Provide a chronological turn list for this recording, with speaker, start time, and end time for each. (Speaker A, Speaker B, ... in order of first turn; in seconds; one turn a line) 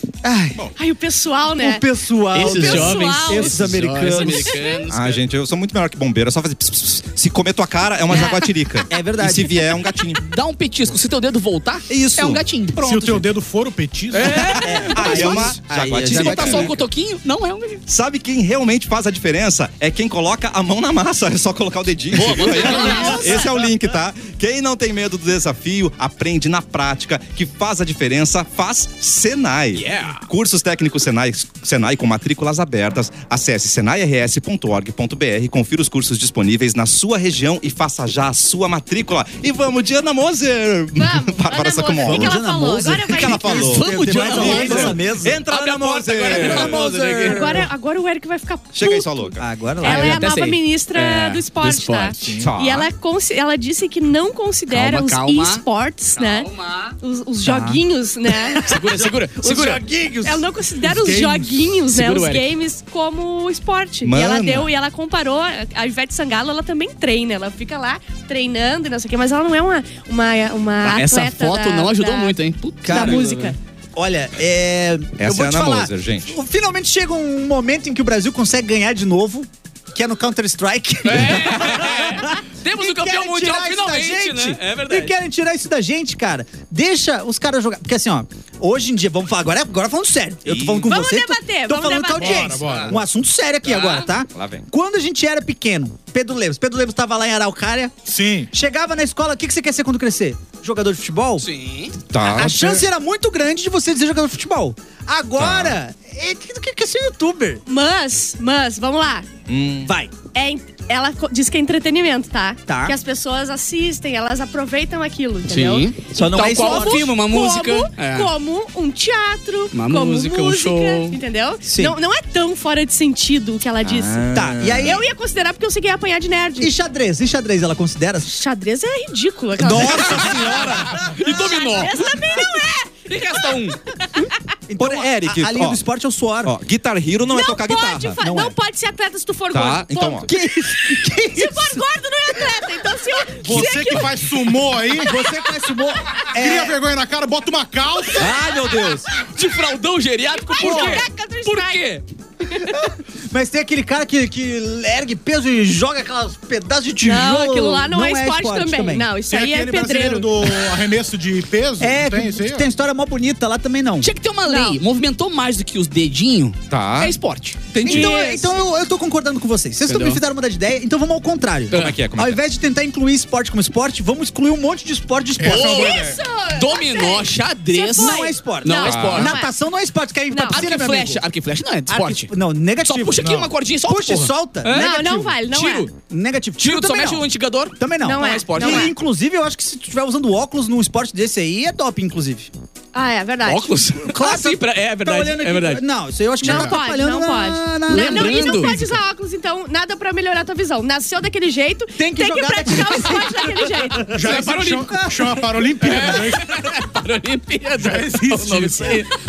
Speaker A: 0.2-0.7
Speaker B: 0.8-4.9
Speaker A: 1.6-4.6
Speaker C: 2.3-5.2
Speaker D: 4.9-10.2
Speaker B: 8.1-8.8
Speaker A: 8.9-9.8
Speaker C: 10.2-13.2
Speaker D: 11.9-13.2
Speaker E: 12.8-14.6
Speaker C: 14.1-17.8
Speaker D: 14.3-16.8
Speaker A: 14.6-16.8
Speaker D: 17.9-47.4
Speaker C: 22.1-23.5
Speaker B: 22.6-23.5
Speaker A: 22.7-23.4
Speaker C: 29.8-30.2
Speaker B: 41.0-43.8
Speaker A: 42.0-47.7
Speaker C: 43.5-47.5
Speaker E: 44.2-44.9
Speaker B: 47.2-58.7
Speaker D: 48.7-49.5
Speaker A: 49.4-50.2
Speaker C: 49.8-52.4
Speaker E: 52.2-52.5
Speaker D: 52.4-52.9
Speaker C: 54.7-55.6
Speaker C: 56.2-57.0
Speaker A: 57.4-60.5
Speaker C: 58.6-59.8
Speaker B: 60.2-72.4
Speaker E: 60.8-61.8
Speaker C: 61.9-62.5
Speaker D: 64.0-64.7
Speaker C: 70.8-73.5
Speaker A: 72.8-98.0
Speaker B: 72.9-73.6
Speaker D: 75.2-76.3
Speaker C: 81.0-85.1
Speaker D: 90.5-90.9
Speaker B: 90.9-92.6
Speaker E: 92.2-93.0
Speaker C: 92.6-92.9
Speaker C: 93.7-94.1
Speaker D: 94.3-94.7
Speaker E: 98.1-98.5
Speaker A: 98.5-101.5
Speaker C: 101.4-102.0
Speaker D: 102.1-102.6
Speaker A: 102.2-107.6
Speaker E: 102.5-102.8
Speaker D: 105.4-105.8
Speaker B: 107.7-109.3
Speaker D: 109.5-109.9
Speaker A: 109.8-110.1
Speaker B: 110.3-124.3
Speaker A: 112.7-113.0
Speaker C: 115.5-118.3
Speaker A: 116.1-117.1
Speaker C: 119.7-121.2
Speaker A: 121.6-122.0
Speaker D: 123.8-125.0
Speaker A: 124.3-125.0
Speaker B: 124.8-126.7
Speaker A: 126.6-128.4
Speaker B: 128.3-134.3
Speaker A: 129.6-131.1
Speaker D: 129.7-130.7
Speaker C: 130.1-132.0
Speaker C: 133.1-133.8
Speaker A: 134.7-136.6
Speaker D: 134.8-135.8
Speaker D: 136.4-138.2
Speaker B: 137.3-144.2
Speaker A: 138.2-138.6
Speaker D: 139.5-140.3
Speaker A: 140.3-141.8
Speaker E: 143.4-145.2
Speaker A: 143.5-143.9
Speaker A: 145.0-146.8
Speaker E: 146.3-148.3
Speaker D: 148.1-149.1
Speaker C: 149.1-152.0
Speaker B: 150.4-151.8
Speaker A: 150.6-151.0
Speaker B: 152.5-152.8
Speaker A: 152.6-159.1
Speaker B: 157.0-160.5
Speaker E: 159.3-162.7
Speaker A: 161.8-164.1
Speaker C: 164.0-167.6
Speaker B: 164.5-164.8
Speaker D: 166.7-167.2
Speaker D: 167.7-168.2
Speaker B: 167.8-168.5
Speaker A: 167.8-176.0
Speaker C: 169.9-170.2
Speaker C: 171.7-172.0
Speaker D: 171.7-172.4
Speaker E: 175.4-176.2
Speaker C: 175.4-179.3
Speaker B: 175.5-179.5
Speaker A: 178.0-181.2
Speaker D: 178.9-179.3
Speaker B: 180.3-180.6
Speaker C: 180.5-182.3
Speaker A: 181.9-183.3
Speaker C: 182.8-185.9
Speaker E: 183.2-183.5
Speaker A: 183.9-185.4
Speaker B: 184.7-185.9
Speaker A: 186.1-187.2
Speaker C: 186.6-188.9
Speaker A: 187.8-192.5
Speaker B: 188.0-188.9
Speaker B: 192.9-193.8
Speaker C: 193.4-195.8
Speaker A: 194.0-199.0
Speaker B: 196.4-204.1
Speaker C: 197.9-198.8
Speaker A: 202.0-205.4
Speaker E: 204.1-206.7
Speaker C: 204.1-204.9
Speaker C: 205.8-209.1
Speaker E: 207.8-209.1